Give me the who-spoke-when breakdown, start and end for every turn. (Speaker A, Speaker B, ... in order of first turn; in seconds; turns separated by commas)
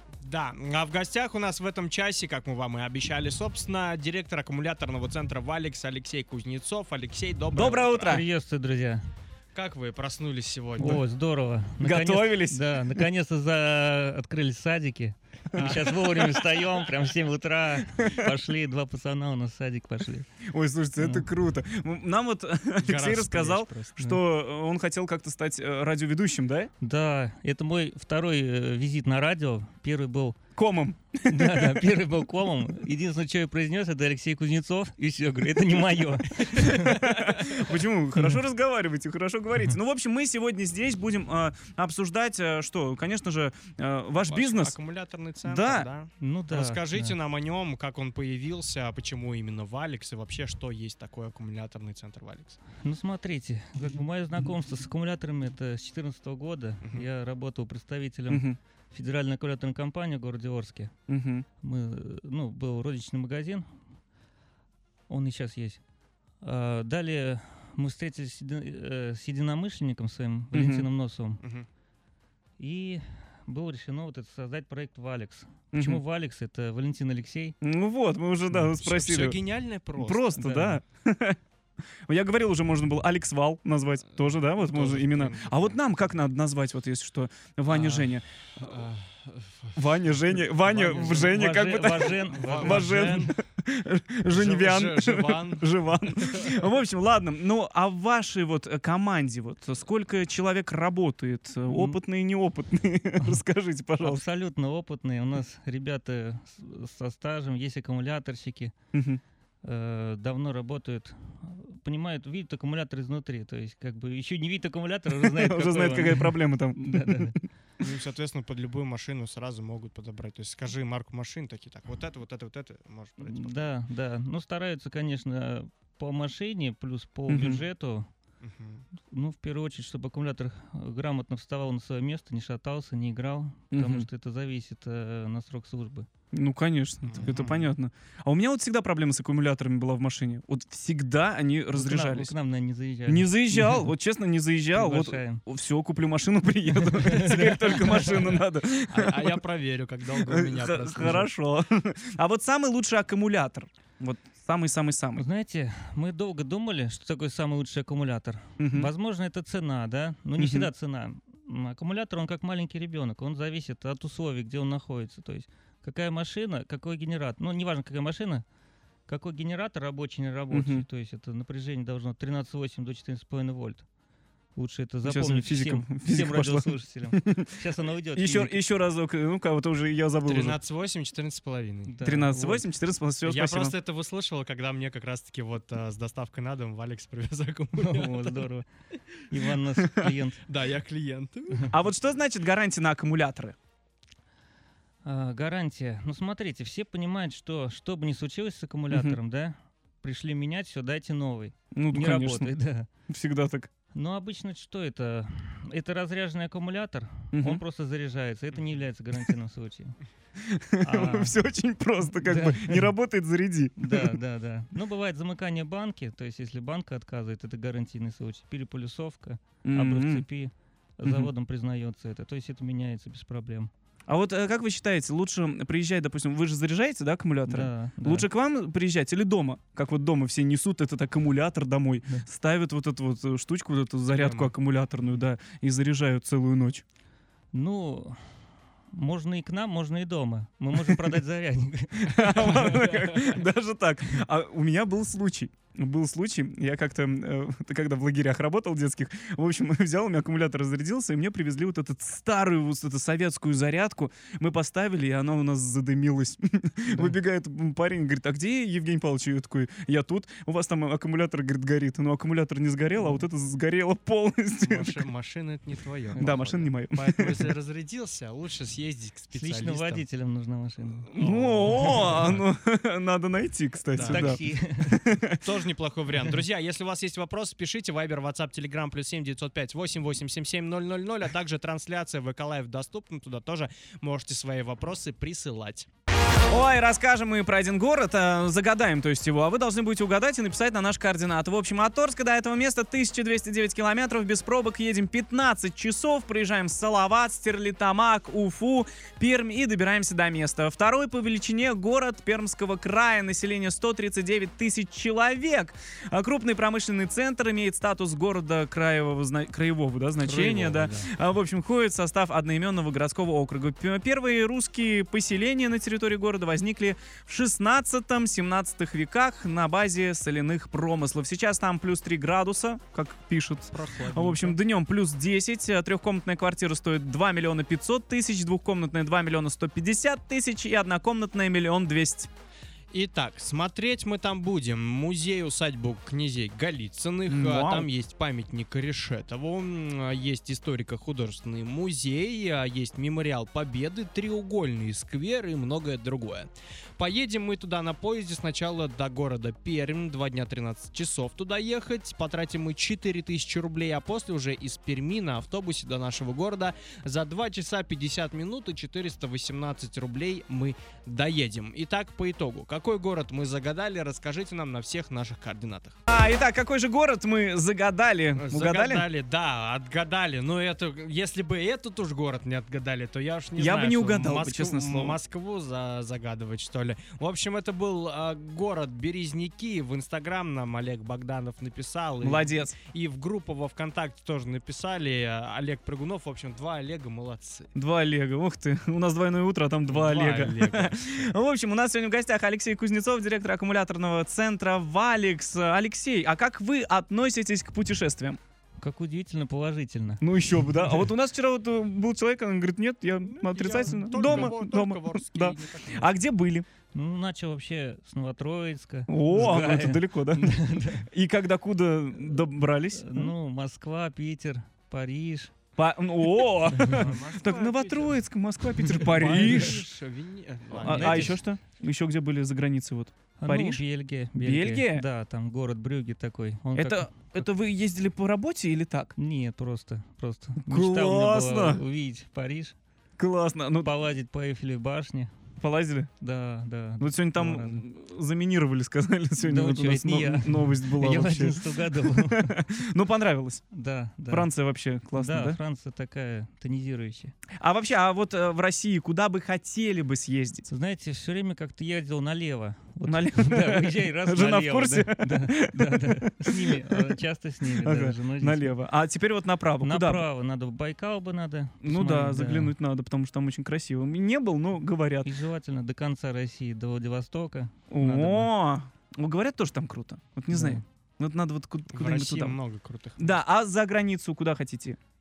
Speaker A: 0.2-8.2, Speaker B: 7.5-8.2, Speaker C: 8.0-9.0, Speaker A: 9.5-11.0, Speaker C: 10.8-20.3, Speaker B: 11.8-13.0, Speaker B: 15.5-16.2, Speaker A: 15.6-16.1, Speaker B: 20.5-26.7, Speaker C: 21.0-21.3, Speaker A: 22.8-24.1, Speaker C: 26.8-30.4, Speaker B: 30.6-31.9, Speaker C: 31.2-37.1, Speaker B: 36.6-44.7, Speaker A: 44.2-52.6, Speaker B: 45.4-45.9, Speaker C: 46.2-47.1, Speaker C: 52.8-60.9, Speaker B: 58.3-58.6, Speaker B: 61.1-61.5, Speaker C: 61.6-63.6, Speaker C: 65.1-65.8, Speaker C: 66.4-71.4, Speaker B: 70.5-70.9, Speaker C: 72.6-77.5, Speaker B: 75.7-76.0, Speaker B: 77.6-79.4, Speaker A: 78.8-80.4, Speaker B: 80.0-81.4, Speaker C: 80.4-80.8, Speaker B: 82.1-88.2, Speaker A: 84.6-86.1, Speaker A: 87.7-91.4, Speaker B: 89.8-104.2, Speaker C: 90.8-93.3, Speaker A: 92.0-93.3, Speaker A: 94.2-95.7, Speaker C: 101.7-102.0, Speaker C: 104.0-108.7, Speaker B: 108.9-109.2, Speaker C: 109.6-117.3, Speaker B: 115.1-117.4, Speaker A: 117.8-123.7, Speaker C: 123.2-128.1, Speaker B: 127.3-127.6, Speaker A: 128.4-128.8, Speaker C: 129.1-136.1, Speaker B: 133.7-134.1, Speaker B: 136.3-142.3, Speaker A: 137.1-137.7, Speaker C: 141.7-143.8, Speaker B: 143.1-149.4, Speaker C: 144.7-145.4, Speaker C: 146.7-148.4, Speaker A: 148.9-151.3, Speaker B: 150.2-155.2, Speaker C: 155.1-168.4, Speaker B: 158.6-158.9, Speaker B: 160.4-160.7, Speaker C: 169.1-173.8, Speaker B: 170.5-170.8, Speaker C: 174.6-178.7, Speaker B: 175.0-177.4, Speaker B: 178.2-180.6, Speaker A: 180.2-181.9, Speaker C: 181.9-182.7, Speaker B: 182.0-183.7, Speaker A: 183.2-188.5, Speaker C: 187.8-188.7, Speaker C: 189.3-190.4, Speaker A: 190.5-191.7, Speaker B: 191.7-193.5, Speaker C: 195.0-202.9, Speaker B: 198.9-199.2, Speaker B: 201.7-202.5, Speaker B: 203.1-203.7, Speaker C: 203.9-209.9, Speaker B: 207.3-207.6, Speaker B: 210.4-214.2, Speaker C: 210.8-211.4, Speaker C: 212.1-212.9, Speaker C: 213.8-223.7, Speaker B: 219.6-220.2, Speaker B: 224.1-236.8, Speaker C: 227.4-228.3, Speaker A: 234.1-234.5, Speaker C: 237.5-238.2, Speaker C: 238.9-242.6, Speaker B: 242.0-265.0, Speaker A: 242.5-243.4, Speaker A: 264.6-270.0, Speaker B: 266.2-267.4, Speaker C: 269.3-271.1, Speaker B: 271.1-275.4, Speaker A: 271.1-272.4, Speaker C: 271.7-272.3, Speaker A: 273.9-274.4, Speaker C: 274.0-275.0, Speaker A: 275.4-285.9, Speaker B: 286.5-332.3, Speaker C: 310.2-310.9, Speaker A: 310.3-310.9, Speaker A: 323.7-324.6, Speaker A: 332.9-366.0, Speaker B: 337.3-337.9, Speaker B: 366.1-369.1, Speaker A: 368.4-387.7, Speaker B: 373.6-375.2, Speaker B: 382.2-382.7, Speaker B: 387.7-398.4, Speaker A: 389.9-391.3, Speaker C: 398.8-400.2, Speaker B: 400.2-406.7, Speaker A: 403.2-406.1, Speaker C: 403.9-404.5, Speaker C: 406.9-411.1, Speaker B: 409.1-413.3, Speaker C: 412.2-415.5, Speaker B: 415.8-419.9, Speaker C: 416.8-417.1, Speaker A: 416.9-418.2, Speaker A: 419.0-421.4, Speaker C: 419.3-419.7, Speaker B: 420.8-423.8, Speaker C: 420.8-421.4, Speaker C: 423.4-427.3, Speaker B: 424.3-425.1, Speaker B: 426.7-429.1, Speaker C: 429.2-432.7, Speaker B: 430.6-431.8, Speaker B: 433.2-433.9, Speaker C: 433.8-435.3, Speaker B: 435.6-436.1, Speaker C: 436.2-437.8, Speaker B: 437.0-443.6, Speaker C: 439.4-442.5, Speaker C: 443.7-444.5, Speaker B: 444.3-445.6, Speaker C: 445.2-447.3, Speaker B: 447.6-450.7, Speaker C: 450.7-458.8, Speaker B: 453.1-456.7, Speaker B: 457.8-460.2, Speaker C: 459.8-462.7, Speaker B: 461.8-465.3, Speaker C: 465.2-468.5, Speaker B: 467.9-472.6, Speaker C: 470.5-470.8, Speaker A: 471.9-473.3, Speaker B: 473.2-475.0